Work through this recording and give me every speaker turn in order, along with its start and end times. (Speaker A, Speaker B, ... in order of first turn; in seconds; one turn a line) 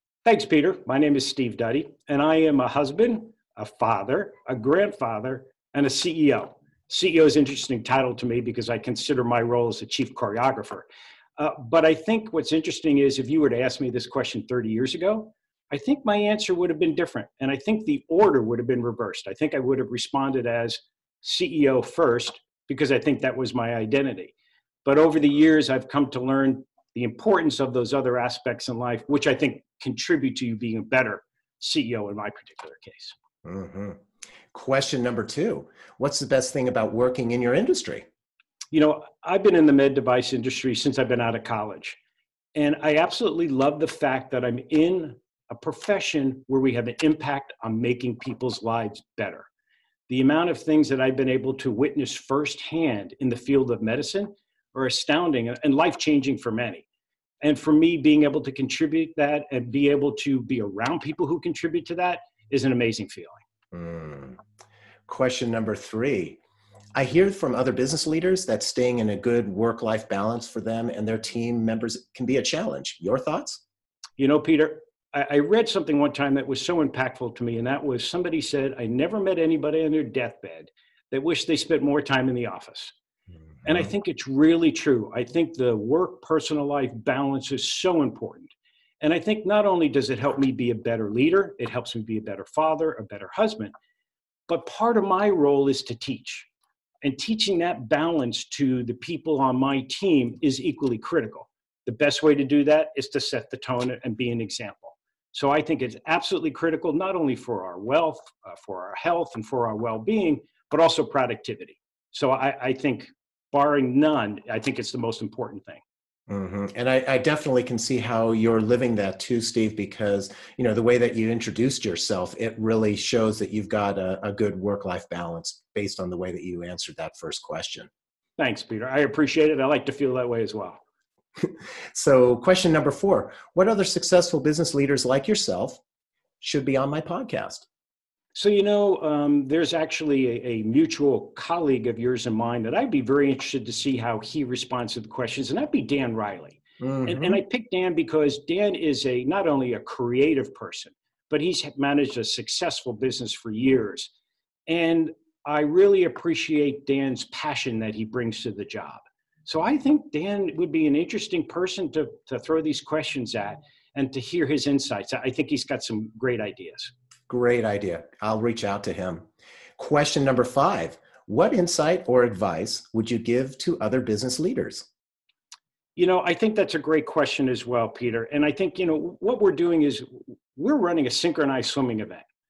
Speaker A: 0.2-24.3
Speaker A: 24.8-33.1
Speaker B: 33.4-34.0
Speaker B: 34.5-38.0
Speaker A: 38.7-42.0
Speaker A: 42.5-49.5
Speaker A: 50.1-56.8
Speaker A: 57.4-63.4
Speaker B: 63.7-64.4
Speaker B: 65.1-66.4
Speaker B: 66.9-73.6
Speaker A: 74.2-82.9
Speaker A: 83.6-93.7
Speaker A: 94.5-96.5
Speaker A: 97.0-115.8
Speaker B: 116.3-127.9
Speaker A: 128.4-130.8
Speaker B: 131.4-135.8
Speaker B: 136.4-137.7
Speaker A: 138.3-154.1
Speaker B: 146.8-147.4
Speaker A: 154.7-166.9
Speaker B: 167.3-169.3
Speaker B: 169.8-174.8
Speaker A: 175.9-182.2